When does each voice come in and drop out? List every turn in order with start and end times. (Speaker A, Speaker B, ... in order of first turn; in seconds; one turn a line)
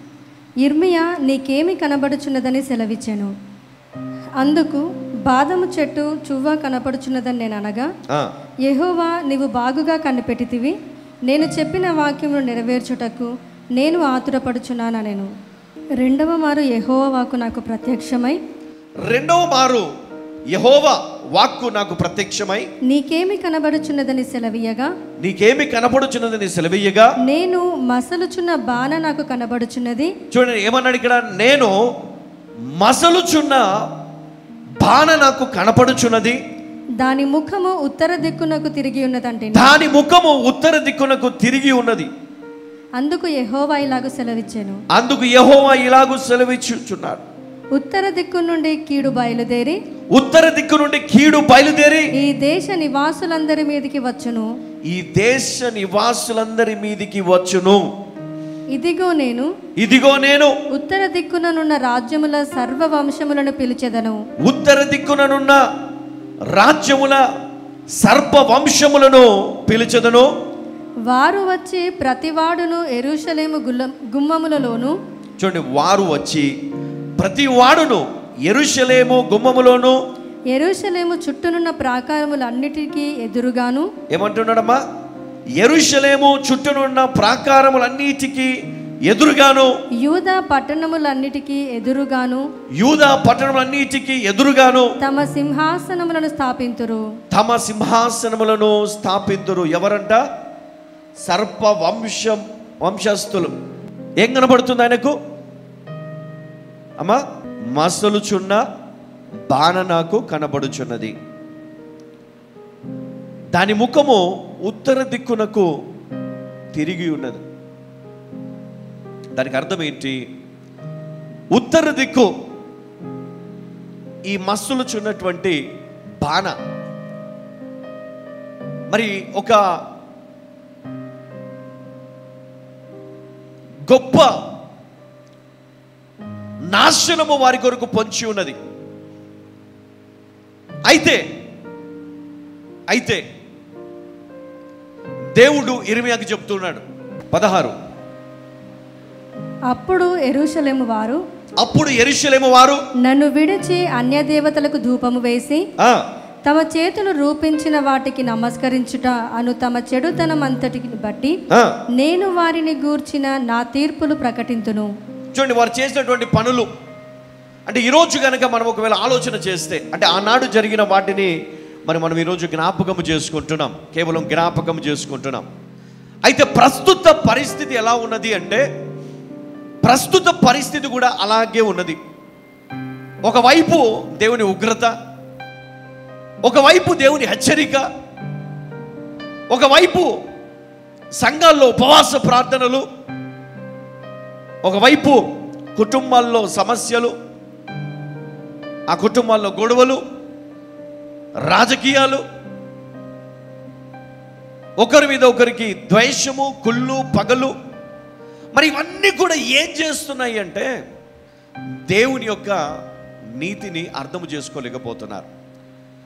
Speaker A: 0.6-3.3
Speaker A: 4.4-7.9
Speaker A: 8.7-10.7
Speaker A: 11.3-15.3
Speaker A: 16.0-18.4
Speaker B: 19.0-19.9
Speaker B: 20.5-22.7
Speaker A: 22.9-24.9
Speaker B: 25.2-27.1
Speaker A: 27.2-30.1
Speaker B: 30.3-31.8
Speaker B: 32.8-33.7
Speaker B: 34.8-36.4
Speaker A: 37.0-39.7
Speaker B: 39.5-42.1
Speaker A: 43.0-44.8
Speaker B: 44.9-47.2
Speaker A: 47.8-49.8
Speaker B: 50.1-52.1
Speaker A: 52.2-54.5
Speaker B: 54.9-57.8
Speaker A: 58.7-59.5
Speaker B: 59.8-60.5
Speaker A: 60.7-64.2
Speaker B: 64.4-65.6
Speaker B: 66.5-67.2
Speaker B: 68.0-70.3
Speaker A: 71.1-74.9
Speaker B: 75.4-76.5
Speaker B: 77.2-80.0
Speaker A: 80.5-83.9
Speaker B: 84.1-84.8
Speaker B: 85.6-88.5
Speaker B: 89.0-89.7
Speaker A: 90.0-92.4
Speaker B: 92.8-94.9
Speaker A: 95.0-97.0
Speaker B: 97.3-100.2
Speaker B: 101.3-103.5
Speaker B: 104.2-105.2
Speaker B: 107.7-108.6
Speaker B: 109.5-111.1
Speaker B: 113.5-115.7
Speaker B: 116.7-117.4
Speaker B: 119.3-120.2
Speaker B: 121.5-122.3
Speaker B: 124.2-125.6
Speaker B: 126.2-126.5
Speaker B: 128.9-129.6
Speaker B: 133.8-134.3
Speaker B: 136.7-138.6
Speaker B: 140.9-141.2
Speaker B: 142.9-143.2
Speaker B: 145.4-147.8
Speaker A: 149.7-151.2
Speaker B: 151.6-152.8
Speaker A: 153.1-155.6
Speaker B: 155.8-156.1
Speaker A: 156.5-161.3
Speaker A: 162.0-164.9
Speaker B: 165.3-166.7
Speaker B: 167.7-171.3
Speaker B: 171.8-175.4
Speaker B: 176.2-178.6
Speaker B: 179.8-182.0
Speaker B: 183.2-184.9
Speaker B: 186.4-187.9
Speaker B: 189.5-190.1
Speaker B: 191.2-192.8
Speaker B: 194.6-195.2
Speaker B: 195.8-197.1
Speaker B: 198.9-200.0
Speaker B: 201.5-202.2
Speaker B: 204.8-207.5
Speaker B: 208.5-210.7
Speaker B: 211.9-212.6
Speaker B: 213.3-215.3